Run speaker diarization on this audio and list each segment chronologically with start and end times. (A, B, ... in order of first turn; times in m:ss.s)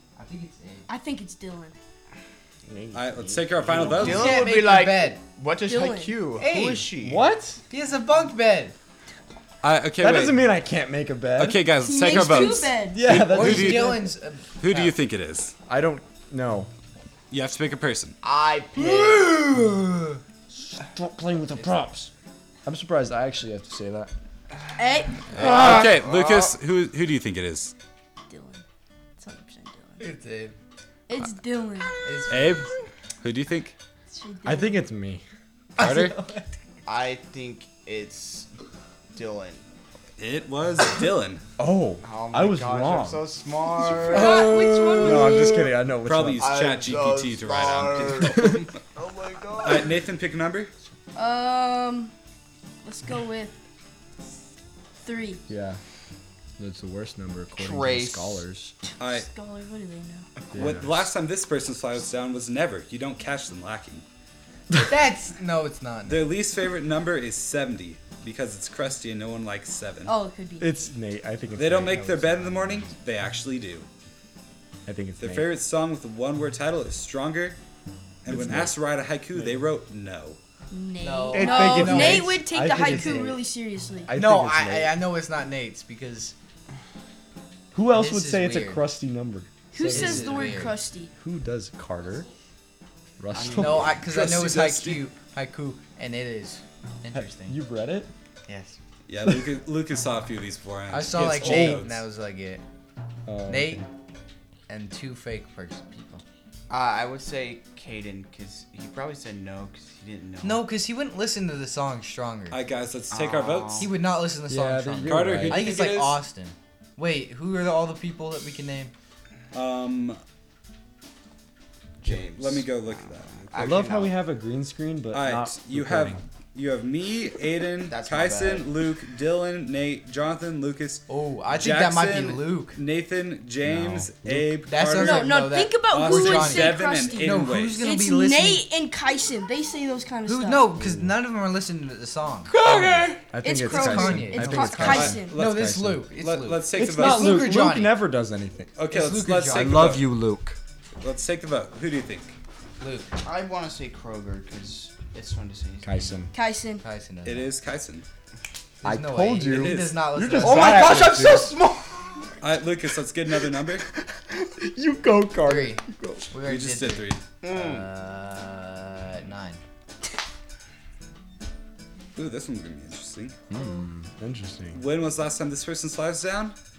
0:00.2-0:00.9 A
0:00.9-0:01.7 B
0:02.7-0:04.4 C
0:02.9-0:04.4 D
0:03.9-0:07.3 E
0:04.0-0:05.2 A
0:05.7-0:06.2 B
0:06.4-0:06.9 A
0:07.0-0:07.6 C
0:07.7-0:08.7 A
0:09.6-0:10.5 D
0:10.0-0:14.1 C
0:11.4-0:14.0 D
0:11.8-0:13.1 B
0:13.0-0:14.9 A
0:14.6-0:15.5 D
0:15.7-0:16.7 C
0:17.3-0:18.2 D
0:18.2-0:19.4 E
0:18.8-0:20.2 A
0:20.6-0:22.1 C
0:21.6-0:21.8 A
0:22.6-0:24.1 C
0:24.8-0:25.9 B
0:25.3-0:26.5 E
0:25.3-0:27.7 D
0:28.3-0:28.6 B
0:29.2-0:30.1 B
0:30.0-0:30.5 A
0:31.1-0:31.9 B
0:32.0-0:32.5 A
0:32.3-0:32.7 D
0:33.2-0:33.7 D
0:34.1-0:34.8 B
0:34.4-0:35.2 C
0:35.8-0:36.1 D
0:35.8-0:36.4 A
0:36.8-0:38.5 E
0:39.1-0:39.6 E
0:40.2-0:41.4 D
0:41.6-0:43.3 C
0:42.0-0:44.6 E
0:44.0-0:46.5 C
0:44.0-0:45.6 B
0:45.0-0:48.8 D
0:46.4-0:50.0 E
0:48.2-0:48.6 C
0:49.6-0:50.7 D
0:51.1-0:52.1 B
0:52.8-0:53.6 B
0:55.0-0:55.4 B
0:55.5-0:55.8 C
0:56.6-0:58.7 C
0:57.6-0:58.4 E
0:59.0-0:59.3 D
0:59.0-1:00.2 B
1:00.5-1:01.1 C
1:00.5-1:04.0 D
1:04.8-1:06.3 A
1:06.1-1:10.1 D
1:10.0-1:10.9 B
1:10.6-1:12.4 C
1:11.5-1:13.9 D
1:12.0-1:12.8 E
1:14.8-1:15.5 C
1:15.2-1:17.6 D
1:18.2-1:20.4 D
1:18.3-1:18.7 C
1:19.3-1:19.6 C
1:20.7-1:24.1 B
1:21.0-1:23.1 A
1:21.3-1:23.4 C
1:24.0-1:25.0 C
1:24.1-1:26.3 A
1:27.7-1:30.6 C
1:27.9-1:28.8 A
1:29.7-1:31.1 B
1:29.8-1:30.8 A
1:31.2-1:32.3 C
1:33.2-1:34.0 C
1:33.3-1:34.0 E
1:33.6-1:37.6 A
1:34.0-1:35.0 D
1:37.1-1:38.1 C
1:38.5-1:38.7 A
1:39.1-1:42.0 D
1:40.9-1:42.6 A
1:41.2-1:41.8 C
1:43.2-1:43.9 C
1:43.5-1:43.8 A
1:44.7-1:46.2 A
1:46.7-1:50.7 E
1:50.4-1:52.6 A
1:52.5-1:53.9 D
1:53.1-1:53.9 E
1:53.8-1:58.9 A
1:54.5-1:55.7 C
1:55.0-1:56.2 D
1:59.5-2:00.2 D
2:02.0-2:04.2 E
2:02.0-2:03.5 D
2:03.6-2:06.2 C
2:05.1-2:17.8 D
2:07.9-2:08.7 E
2:11.1-2:12.8 A
2:13.6-2:14.5 C
2:14.7-2:18.6 A
2:15.0-2:20.8 B
2:20.2-2:22.5 A
2:20.8-2:21.1 C
2:22.6-2:26.0 C
2:22.6-2:23.2 E
2:23.4-2:25.3 B
2:23.7-2:28.0 A
2:24.8-2:27.5 D
2:26.8-2:28.7 C
2:28.8-2:30.0 D
2:28.9-2:29.8 A
2:29.5-2:30.6 C
2:31.0-2:32.3 D
2:32.8-2:33.1 A
2:33.2-2:36.0 E
2:35.8-2:36.3 C
2:36.3-2:36.8 B
2:36.8-2:37.5 A
2:37.2-2:38.0 D
2:38.8-2:40.8 A
2:38.8-2:41.5 C
2:39.5-2:40.0 D
2:40.4-2:42.1 E
2:42.4-2:43.8 D
2:44.6-2:46.3 C
2:45.4-2:49.6 A
2:46.4-2:47.2 D
2:47.4-2:47.8 E
2:52.1-2:53.4 D
2:53.5-2:54.8 C
2:53.6-2:53.8 B
2:54.7-2:56.5 D